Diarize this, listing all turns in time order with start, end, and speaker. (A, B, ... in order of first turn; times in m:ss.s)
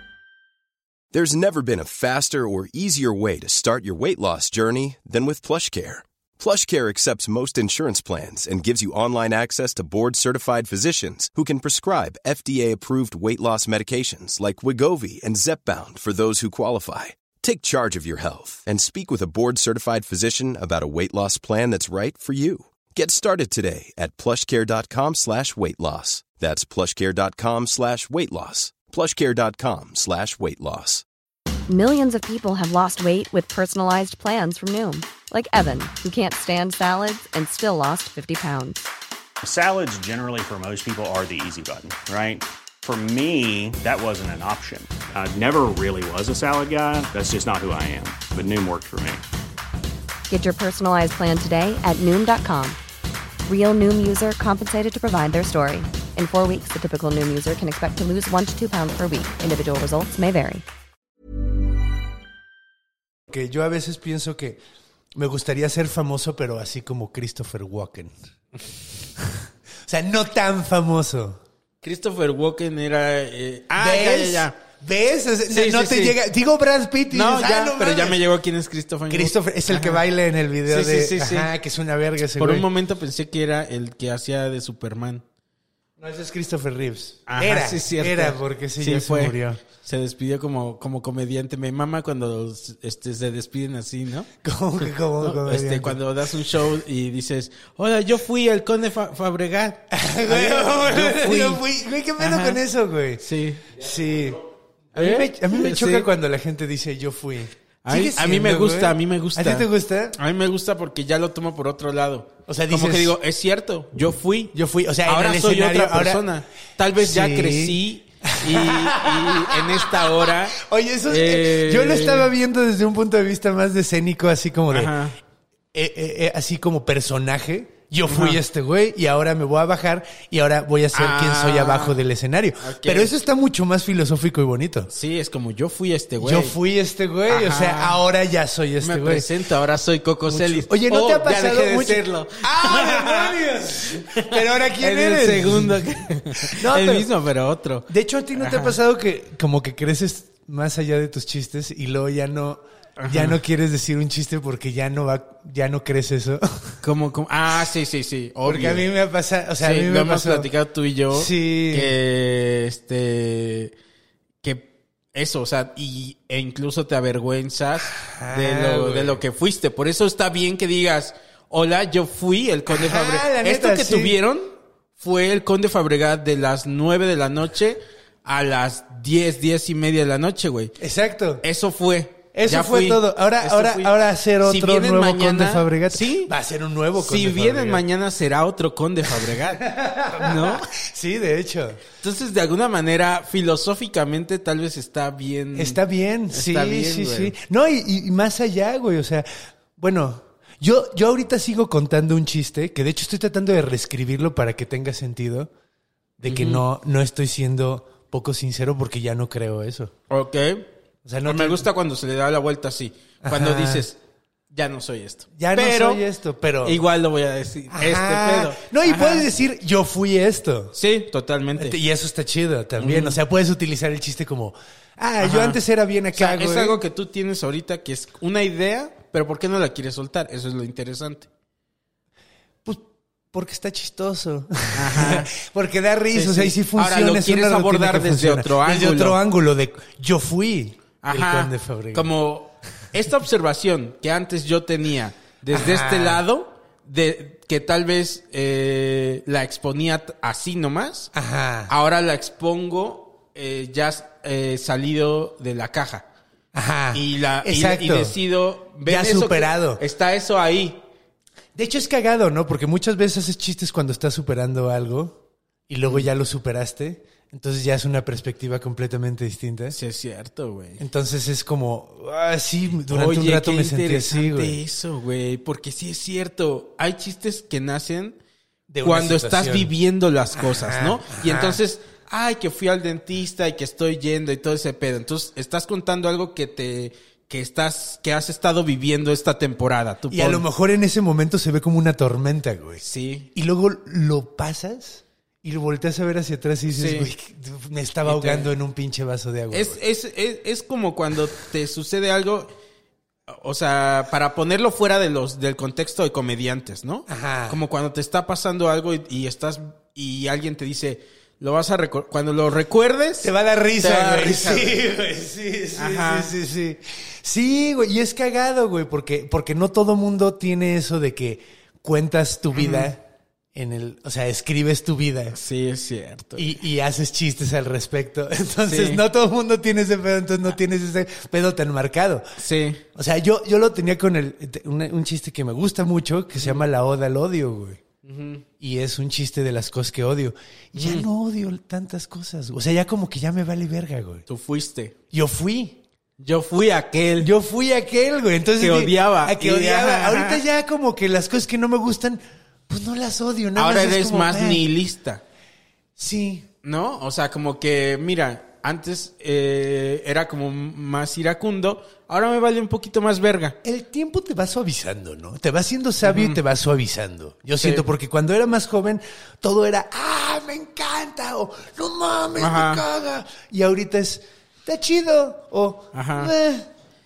0:01.1-0:31.0 A
0:31.7-0:38.9 B
0:39.4-0:49.2 C
0:50.3-0:52.8 B
0:53.4-1:00.6 B
1:03.3-1:04.6 D
1:05.1-1:08.1 D
1:09.8-1:11.4 D
1:11.8-1:14.6 E
1:13.8-1:18.2 D
1:15.5-1:16.2 E
1:17.1-1:20.0 E
1:19.1-1:22.7 D
1:20.6-1:21.5 E
1:22.4-1:25.2 E
1:26.0-1:29.6 D
1:27.3-1:41.6 E
1:34.4-1:36.0 D
1:39.9-1:44.4 D
1:42.2-1:42.6 E
1:43.2-1:43.7 E
1:44.9-1:50.2 D
1:44.9-1:46.1 E
1:47.8-1:54.5 E
1:52.5-1:53.1 D
1:54.5-1:56.2 D
1:55.0-2:02.3 E
1:57.0-2:04.9 D
2:04.7-2:05.2 E
2:05.7-2:14.9 D
2:08.0-2:08.4 E
2:10.9-2:12.0 E
2:12.6-2:13.1 E
2:14.9-2:16.5 E
2:16.2-2:19.3 D
2:17.3-2:18.0 E
2:18.8-2:23.4 E
2:20.3-2:25.8 D
2:24.0-2:28.8 E
2:26.4-2:27.1 D
2:27.9-2:36.8 D
2:33.0-2:33.4 E
2:36.8-2:38.8 E
2:38.4-2:40.5 D
2:39.6-2:43.7 E
2:41.1-2:41.9 D
2:44.4-3:00.8 E
2:48.0-2:49.2 D
2:52.7-2:54.2 D
3:00.8-3:01.4 D
3:01.4-3:06.3 E
3:02.3-3:07.8 D
3:07.0-3:10.7 E
3:09.1-3:11.8 D
3:12.0-3:15.8 E
3:15.5-3:19.2 D
3:16.3-3:17.3 E
3:19.8-3:25.5 D
3:26.2-3:29.9 D
3:26.2-3:26.6 E
3:30.1-3:30.7 E
3:31.0-3:31.7 D
3:31.2-3:34.0 E
3:33.2-3:33.8 D
3:34.5-3:36.0 E
3:35.4-3:36.8 D
3:36.6-3:39.3 E
3:37.7-3:40.8 D
3:40.7-3:41.8 E
3:41.6-3:46.8 D
3:42.8-3:43.2 E
3:45.2-3:45.6 E
3:46.1-3:51.3 E
3:52.6-4:02.1 D
3:54.7-3:55.3 E
3:56.1-3:59.2 E
4:01.0-4:11.1 E
4:05.5-4:06.2 D
4:11.1-4:11.7 D
4:11.7-4:16.0 E
4:16.5-4:18.1 D
4:16.9-4:20.8 E
4:18.8-4:19.8 D
4:21.5-4:29.8 D
4:29.7-4:30.8 E
4:30.8-4:34.6 D
4:32.9-4:38.2 E
4:38.7-4:39.7 D
4:38.8-4:50.4 E
4:40.3-4:41.6 D
4:50.1-4:52.8 D
4:52.8-4:53.3 E
4:53.3-4:59.8 D
4:56.7-4:57.1 E
4:58.0-4:58.5 E
4:59.5-5:02.5 E
5:03.3-5:14.8 E
5:07.1-5:07.6 D
5:13.2-5:23.0 D
5:15.7-5:16.3 E
5:22.5-5:22.9 E
5:23.5-5:25.4 D
5:25.3-5:26.5 E
5:26.4-5:32.2 D
5:28.6-5:29.0 E
5:32.4-5:32.8 E
5:32.9-5:37.8 D
5:36.4-5:36.6 E
5:38.0-5:38.4 E
5:38.6-5:44.2 D
5:40.7-5:41.1 E
5:44.3-5:44.9 E
5:45.1-5:45.8 D
5:46.2-5:47.3 E
5:47.2-5:54.7 D
5:48.6-5:50.4 E
5:53.6-5:55.2 E
5:56.0-5:56.5 D
5:56.6-6:03.6 E
6:03.6-6:16.7 D
6:06.0-6:06.4 E
6:12.4-6:12.8 E
6:15.9-6:16.3 E